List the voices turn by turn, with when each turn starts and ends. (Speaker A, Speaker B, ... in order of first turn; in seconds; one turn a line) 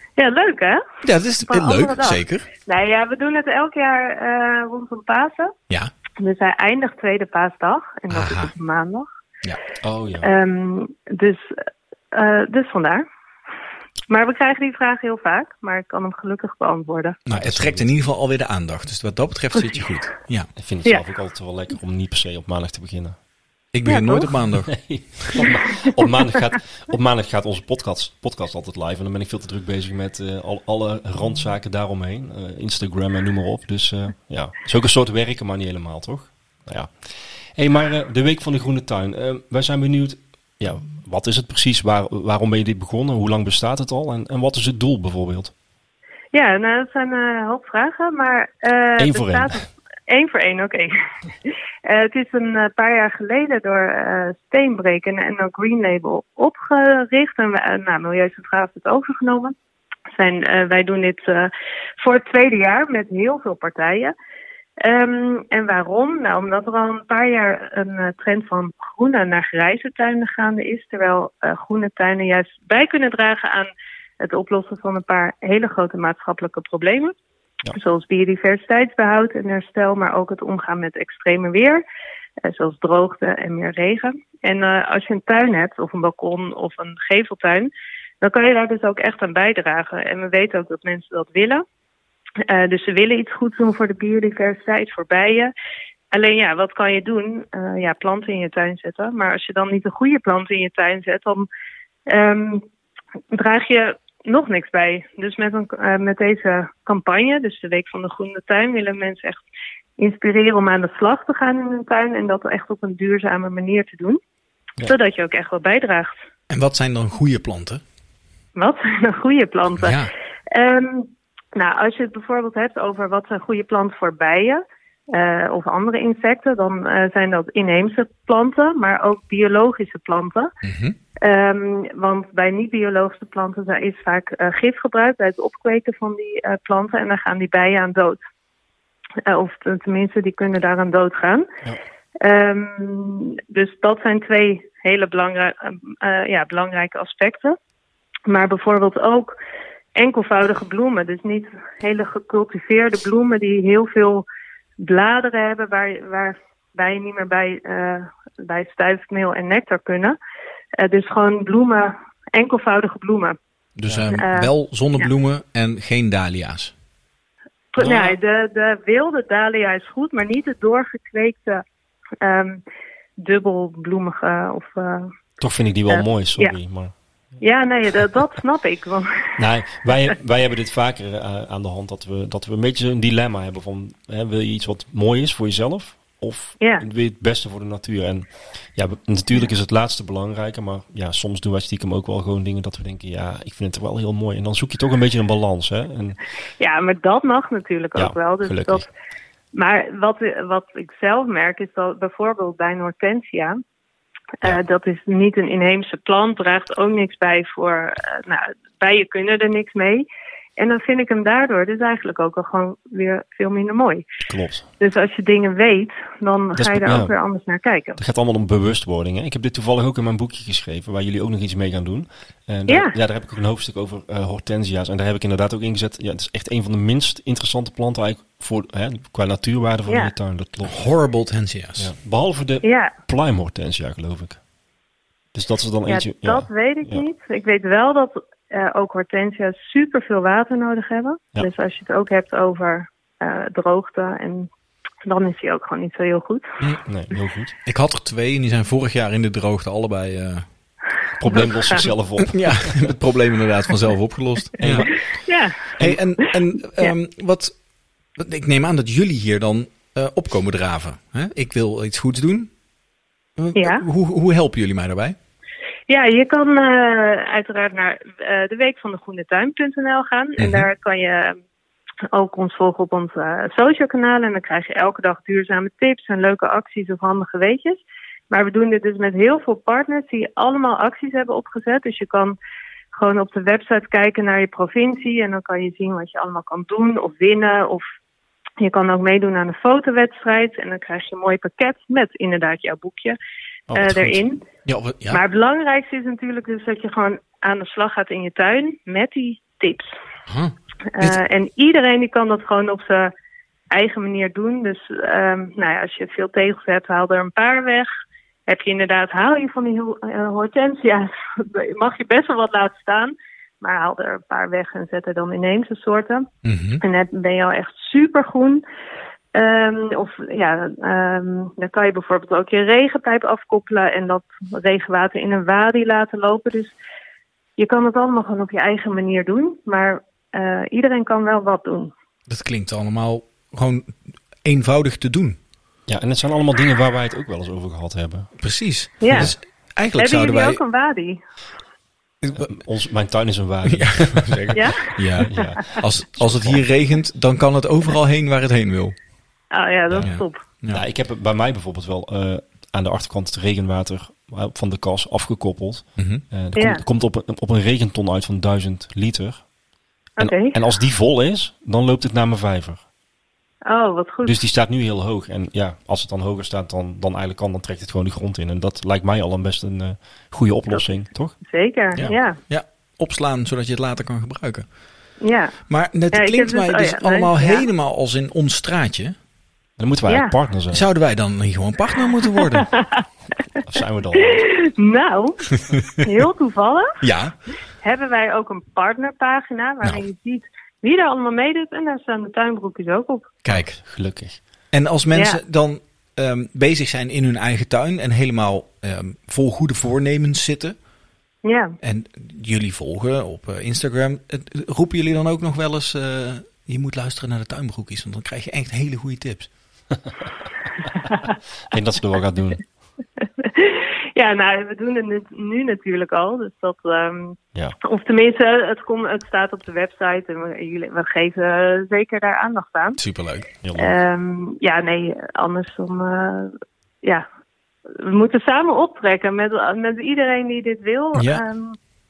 Speaker A: 0.2-0.8
Speaker B: 1.0-2.5
Speaker A: 1.5-5.5
Speaker A: 6.2-9.1
Speaker B: 8.1-8.5
Speaker C: 9.8-10.3
Speaker A: 10.2-11.5
Speaker A: 12.1-13.0
Speaker A: 14.1-17.2
Speaker B: 17.3-20.5
Speaker C: 17.3-17.9
Speaker C: 20.6-23.2
Speaker B: 23.7-25.4
Speaker A: 23.8-24.3
Speaker C: 24.6-45.5
Speaker A: 46.3-50.9
Speaker C: 49.0-49.7
Speaker A: 51.5-59.5
Speaker A: 60.1-64.1
Speaker A: 64.8-73.7
Speaker A: 74.2-77.1
Speaker A: 77.7-81.8
Speaker A: 82.4-91.6
Speaker A: 92.5-95.5
Speaker A: 96.1-101.5
Speaker A: 102.1-102.6
Speaker A: 103.3-109.4
Speaker A: 110.0-114.2
Speaker A: 114.8-116.2
Speaker B: 116.5-117.8
Speaker A: 118.5-130.5
Speaker B: 119.8-120.1
Speaker B: 130.6-131.0
Speaker A: 131.2-138.2
Speaker A: 139.2-141.5
Speaker A: 142.2-147.6
Speaker A: 148.2-149.3
Speaker A: 149.9-154.2
Speaker A: 154.8-160.2
Speaker A: 160.8-163.3
Speaker B: 163.8-166.7
Speaker C: 163.9-164.1
Speaker A: 164.1-164.5
Speaker A: 167.7-171.6
Speaker C: 167.8-168.1
Speaker A: 172.2-172.6
Speaker A: 173.2-175.1
Speaker C: 175.4-176.9
Speaker A: 175.9-176.5
Speaker A: 177.4-179.3
Speaker C: 179.4-196.2
Speaker A: 196.6-198.9
Speaker C: 197.9-198.9
Speaker A: 199.5-203.6
Speaker A: 204.4-210.0
Speaker A: 210.6-214.0
Speaker C: 214.3-214.7
Speaker A: 214.8-218.0
Speaker C: 216.6-217.1
Speaker C: 218.0-230.8
Speaker A: 222.7-222.9
Speaker B: 230.6-231.9
Speaker C: 231.8-234.4
Speaker A: 232.6-232.9
Speaker C: 235.3-237.1
Speaker A: 235.9-244.5
Speaker A: 245.0-246.6
Speaker C: 246.7-247.5
Speaker B: 247.6-250.4
Speaker C: 251.2-252.9
Speaker A: 251.4-251.8
Speaker B: 252.2-255.0
Speaker C: 254.6-255.0
Speaker A: 254.7-255.7
Speaker B: 255.8-257.5
Speaker B: 258.1-262.5
Speaker B: 263.4-265.1
Speaker A: 263.6-263.8
Speaker A: 265.9-271.4
Speaker B: 270.4-270.7
Speaker A: 272.1-282.4
Speaker A: 282.9-287.8
Speaker A: 288.6-293.2
Speaker C: 293.7-294.2
Speaker A: 293.7-294.4
Speaker B: 294.6-295.2
Speaker A: 295.1-299.9
Speaker B: 300.3-301.2
Speaker A: 300.9-303.1
Speaker A: 303.7-307.9
Speaker A: 308.5-316.3
Speaker B: 316.4-316.8
Speaker A: 316.8-318.6
Speaker A: 319.3-326.7
Speaker A: 327.6-331.9
Speaker B: 332.3-335.4
Speaker C: 335.9-338.3
Speaker B: 338.4-340.6
Speaker A: 339.0-339.3
Speaker A: 340.0-341.2
Speaker B: 342.2-342.5
Speaker C: 342.3-346.6
Speaker B: 343.7-349.0
Speaker A: 344.5-345.4
Speaker A: 349.5-350.4
Speaker B: 349.9-350.8
Speaker C: 350.7-359.4
Speaker B: 356.0-356.2
Speaker A: 356.6-356.8
Speaker A: 360.2-360.6
Speaker C: 360.2-362.8
Speaker A: 363.7-364.4
Speaker C: 364.2-371.4
Speaker A: 370.7-372.4
Speaker B: 372.5-374.6
Speaker A: 375.2-375.6
Speaker B: 375.7-379.1
Speaker A: 376.1-377.7
Speaker C: 379.8-380.9
Speaker A: 380.1-380.3
Speaker B: 380.7-382.7
Speaker A: 382.6-383.0
Speaker C: 383.6-384.5
Speaker A: 384.2-387.0
Speaker B: 387.0-387.3
Speaker A: 387.8-393.4
Speaker B: 393.4-393.8
Speaker C: 393.5-394.4
Speaker B: 394.7-400.7
Speaker A: 395.1-395.4
Speaker A: 401.4-401.8
Speaker B: 401.8-409.5
Speaker C: 411.7-412.6
Speaker A: 413.2-423.0
Speaker B: 423.0-423.5
Speaker C: 423.6-424.0
Speaker A: 423.8-427.2
Speaker A: 427.9-431.8
Speaker B: 431.1-431.4